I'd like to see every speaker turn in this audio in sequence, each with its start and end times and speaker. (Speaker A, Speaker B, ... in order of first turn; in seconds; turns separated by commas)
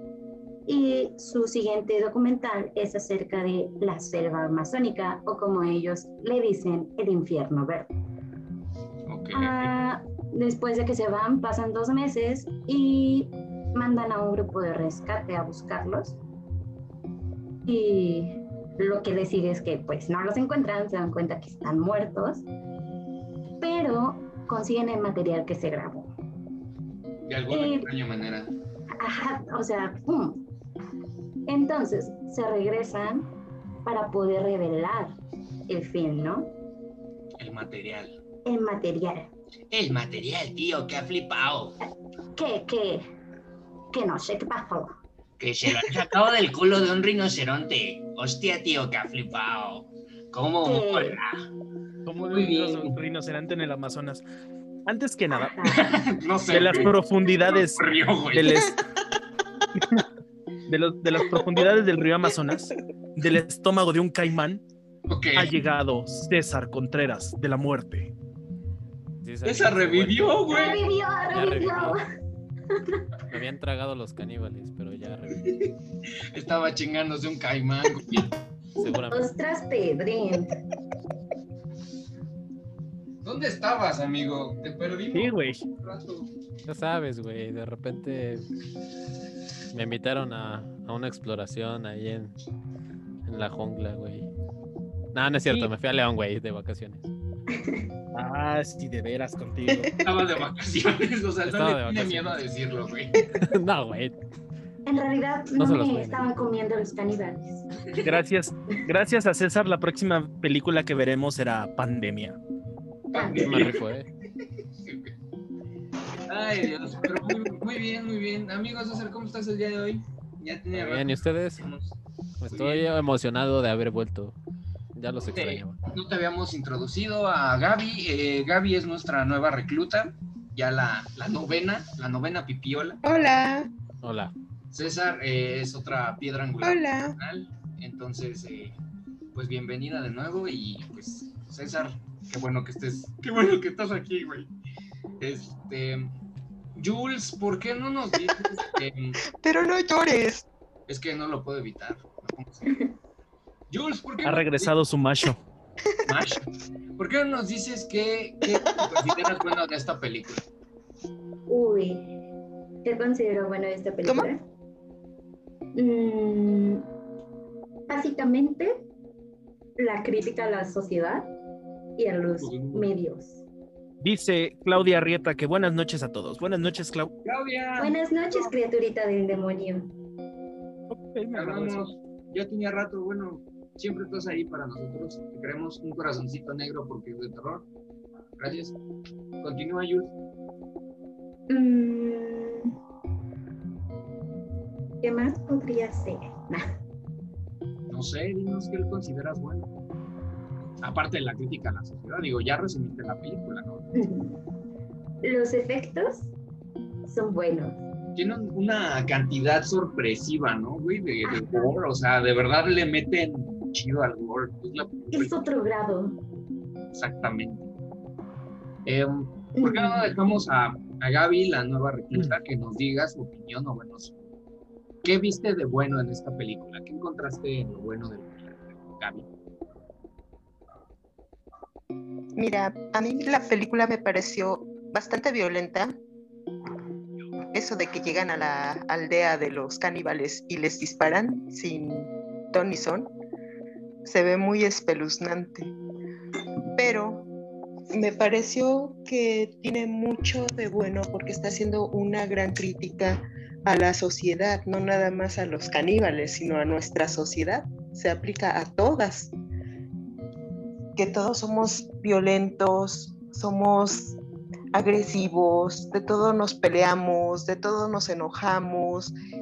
Speaker A: 0.7-7.9, Speaker B: 9.1-9.7, Speaker A: 9.3-16.2, Speaker A: 17.6-22.4, Speaker A: 23.6-26.1, Speaker B: 27.2-28.5, Speaker A: 27.5-27.9, Speaker A: 29.0-30.4, Speaker A: 31.5-33.3, Speaker A: 33.8-35.1, Speaker A: 35.7-36.5, Speaker B: 37.4-38.2, Speaker A: 38.4-39.3, Speaker B: 39.7-41.8, Speaker A: 42.3-43.0, Speaker A: 43.9-45.0, Speaker B: 45.4-51.3, Speaker A: 50.6-51.2, Speaker C: 52.0-54.2, Speaker B: 52.3-53.0, Speaker C: 54.9-55.6, Speaker A: 55.5-55.8, Speaker B: 55.6-56.9, Speaker C: 56.5-58.7, Speaker B: 57.5-58.6, Speaker C: 59.7-60.0, Speaker C: 60.7-64.6, Speaker B: 65.1-65.5, Speaker C: 65.3-68.1, Speaker D: 69.2-70.5, Speaker B: 69.4-70.8, Speaker A: 70.5-72.0, Speaker D: 71.3-72.0, Speaker A: 72.7-73.0, Speaker D: 73.3-75.4, Speaker B: 75.5-75.7, Speaker B: 76.3-78.3, Speaker D: 78.8-79.3, Speaker A: 79.1-80.5, Speaker B: 83.2-86.3, Speaker C: 85.1-85.6, Speaker D: 86.7-88.5, Speaker D: 89.7-92.3, Speaker D: 93.2-94.3, Speaker D: 95.1-97.1, Speaker A: 97.5-97.9, Speaker C: 98.1-99.9, Speaker B: 100.0-103.3, Speaker D: 101.5-102.4, Speaker D: 103.3-104.2, Speaker A: 104.8-107.7, Speaker D: 105.6-106.3, Speaker C: 108.0-112.4, Speaker B: 113.1-113.8, Speaker A: 113.1-113.7, Speaker D: 113.4-114.1, Speaker B: 114.8-115.1, Speaker B: 116.3-122.0, Speaker D: 120.7-121.6, Speaker D: 122.4-124.3, Speaker B: 122.5-122.8, Speaker D: 124.9-125.8, Speaker B: 125.3-133.0, Speaker E: 133.0-133.7, Speaker D: 134.0-134.3, Speaker B: 134.7-138.8, Speaker E: 136.6-137.2, Speaker B: 139.3-144.5, Speaker B: 145.2-146.1, Speaker B: 146.8-149.2, Speaker E: 149.4-150.4, Speaker B: 150.9-152.8, Speaker A: 152.7-152.9, Speaker B: 153.7-154.7, Speaker C: 154.2-155.4, Speaker B: 156.1-156.4, Speaker B: 157.0-160.4, Speaker E: 158.6-158.9, Speaker A: 161.5-162.1, Speaker A: 162.8-164.4, Speaker A: 165.7-166.9, Speaker A: 167.9-168.8, Speaker A: 169.8-171.3, Speaker A: 172.0-173.4, Speaker B: 172.4-172.9, Speaker C: 174.0-177.1, Speaker B: 177.2-178.5, Speaker A: 177.8-179.9, Speaker C: 180.9-181.9, Speaker B: 181.3-187.7, Speaker B: 188.4-188.8, Speaker B: 189.4-190.1, Speaker A: 191.5-192.7, Speaker A: 195.0-196.7, Speaker B: 197.9-199.7, Speaker B: 200.8-204.0, Speaker A: 203.9-204.4, Speaker A: 205.2-206.3, Speaker A: 207.1-207.8, Speaker B: 208.2-215.4, Speaker A: 211.2-211.7, Speaker A: 215.1-216.2, Speaker B: 216.9-217.7, Speaker B: 218.8-224.2, Speaker A: 219.6-220.2, Speaker B: 225.0-229.3, Speaker E: 232.3-236.0, Speaker E: 237.5-243.1, Speaker E: 244.0-245.7, Speaker E: 246.7-247.3, Speaker E: 247.9-259.3, Speaker E: 260.9-264.2, Speaker E: 264.7-269.1